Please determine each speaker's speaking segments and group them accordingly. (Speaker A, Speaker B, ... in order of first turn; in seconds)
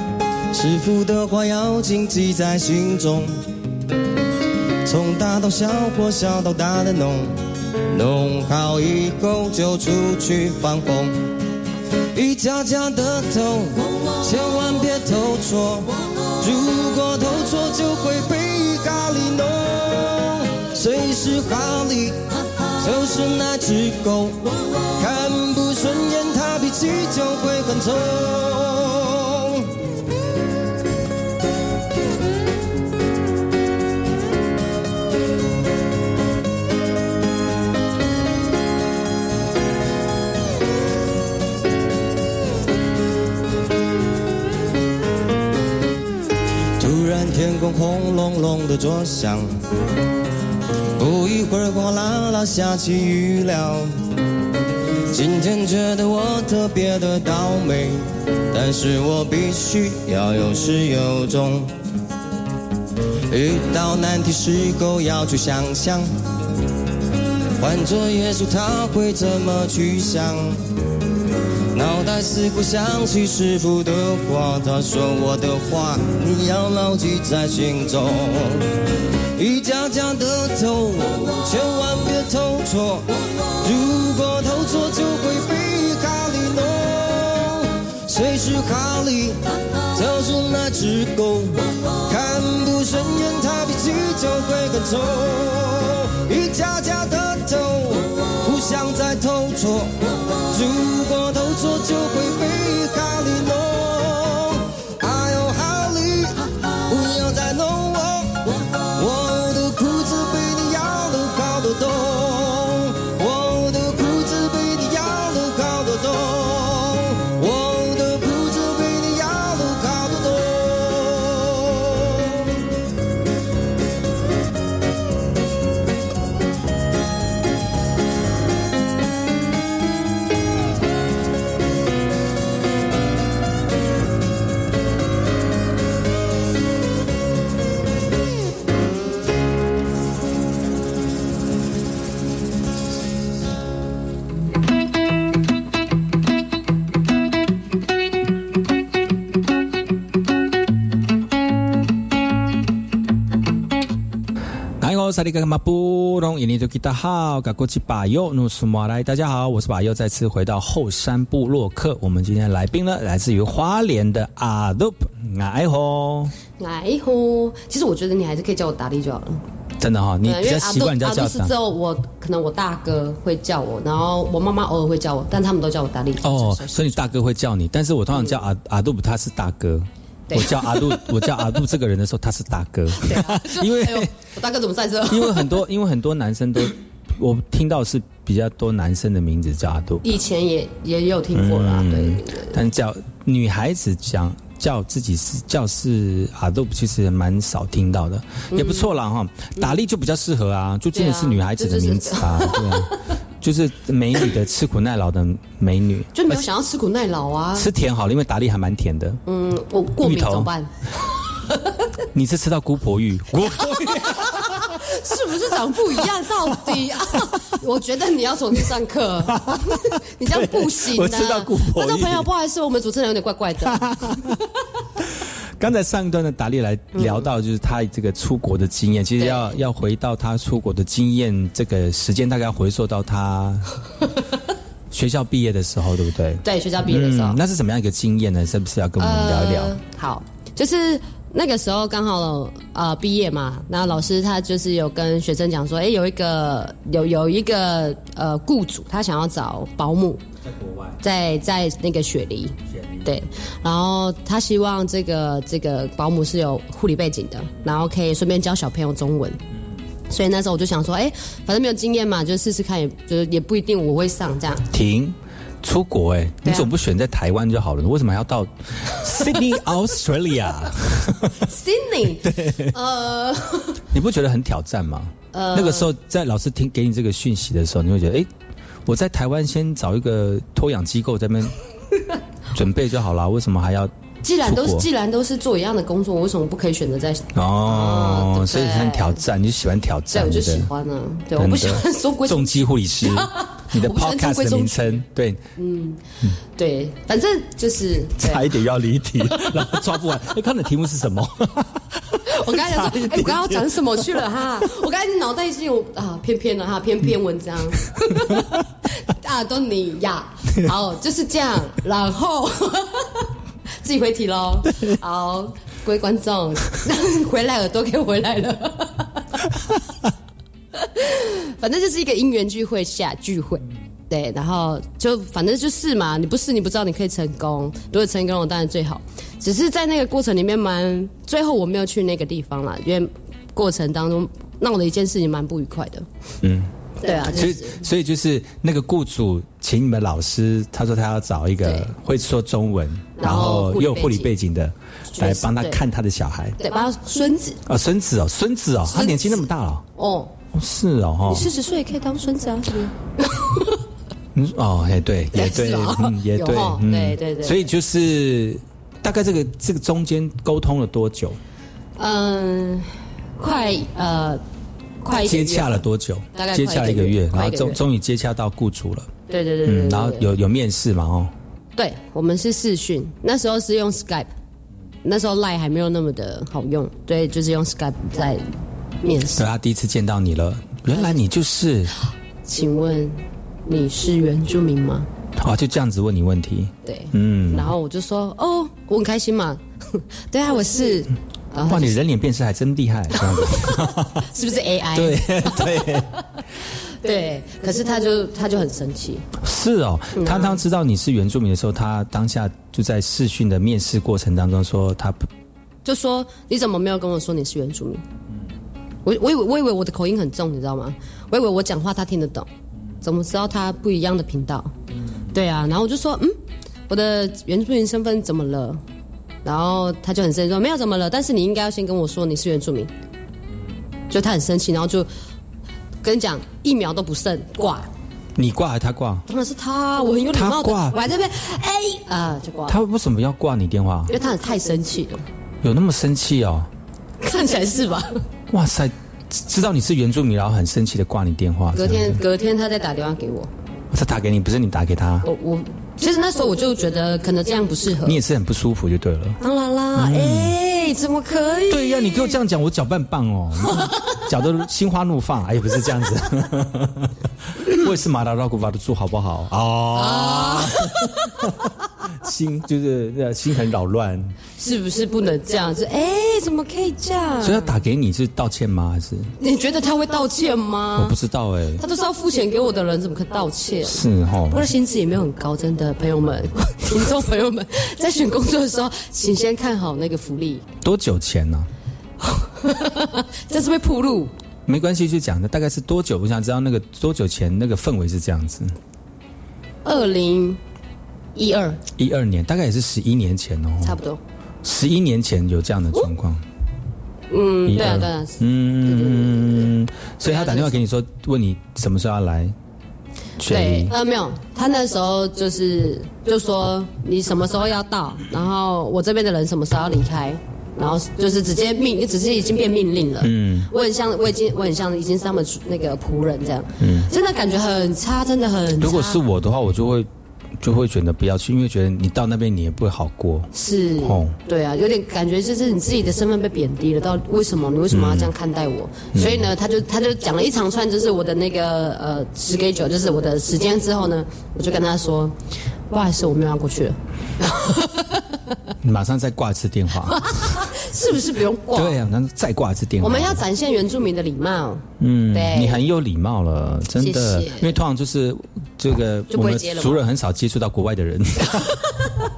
Speaker A: 0.5-3.3, 4.8-7.3, 7.9-11.3, 12.1-22.2, 22.8-24.4, 25.0-29.6, 46.8-49.5, 51.0-53.9, 55.1-61.7, 63.3-66.1, 67.6-70.6, 71.7-78.6, 79.3-83.1, 83.6-89.4, 89.9-99.9, 100.5-122.4
Speaker B: 154.8-166.3, 169.8-171.5, 176.2-184.1, 185.1-190.0, 191.3-206.4, 207.5-209.2, 210.0-210.5, 212.1-214.8, 219.3-222.3, 223.7-224.4, 225.6-233.7, 234.9-239.7, 250.4-251.0, 252.7-253.1, 264.7-271.4, 272.2-272.7, 273.9-278.3, 278.9-281.6, 282.5-284.9, 287.3-290.7, 291.4-295.4, 298.2-304.0, 336.4-336.7, 337.3-346.6, 347.6-349.9, 350.5-351.5, 354.3-361.4, 365.2-369.1, 369.6-371.3, 379.3-381.9, 385.4-387.7, 391.7-394.2, 394.9-396.1, 399.4-405.3, 428.4-429.2, 430.3-431.0, 432.7-434.1, 435.6-436.7, 438.5-442.2, 443.9-445.2, 448.0-449.4, 449.9-450.6, 451.7-461.7, 462.2-464.4, 467.4-469.3, 470.9-471.8, 473.8-474.6, 480.8-481.7, 484.7-488.7, 492.0-494.0, 494.6-496.4, 497.6-502.5, 503.4-503.9, 513.2-513.7, 516.8-517.1, 518.8-520.1, 520.6-524.4, 527.9-528.3, 529.1-529.5, 538.8-540.7, 541.7-543.4, 545.0-551.7
Speaker C: 166.6-169.4, 170.2-177.1, 178.1-178.4, 180.3-181.1, 182.9-185.6, 190.0-192.6, 198.5-198.9, 200.9-203.1, 206.1-207.7, 209.2-210.7, 213.8-224.3, 226.9-227.2, 229.2-229.5, 236.4-237.4, 239.0-250.2, 251.0-259.4, 260.1-264.6, 266.4-266.7, 268.9-269.3, 271.4-273.8, 275.3-275.9, 284.2-289.2, 290.1-295.0, 295.6-296.0, 296.5-298.5, 299.3-299.7, 302.3-313.3, 313.8-319.1, 320.7-336.1, 337.0-337.8, 341.6-341.9, 343.2-344.3, 345.1-345.8, 346.6-347.6, 348.9-350.3, 351.2-353.8, 355.3-357.7, 362.0-364.4, 365.0-365.8, 366.3-367.8, 369.3-370.3, 371.8-374.3, 375.0-378.5, 379.0-379.4, 380.9-381.2, 382.4-385.1, 386.8-392.0, 393.1-395.8, 397.0-399.2, 400.1-400.6, 405.8-408.0, 409.0-412.5, 413.0-414.7, 415.3-416.3, 416.9-418.8, 419.4-422.9, 424.1-425.1, 426.0-427.9, 429.3-432.8, 434.1-435.2, 437.2-438.1, 441.7-443.5, 445.2-448.2, 449.4-452.4, 453.7-454.2, 459.9-461.5, 464.6-467.8, 469.4-471.2, 471.8-480.6, 482.2-484.3, 489.8-490.6, 491.3-491.8, 493.8-494.2, 497.3-499.7, 500.2-500.8, 503.4-519.2, 523.5-535.3, 535.9-538.2, 540.0-542.0, 543.0-545.8, 547.0-547.8, 549.3-550.0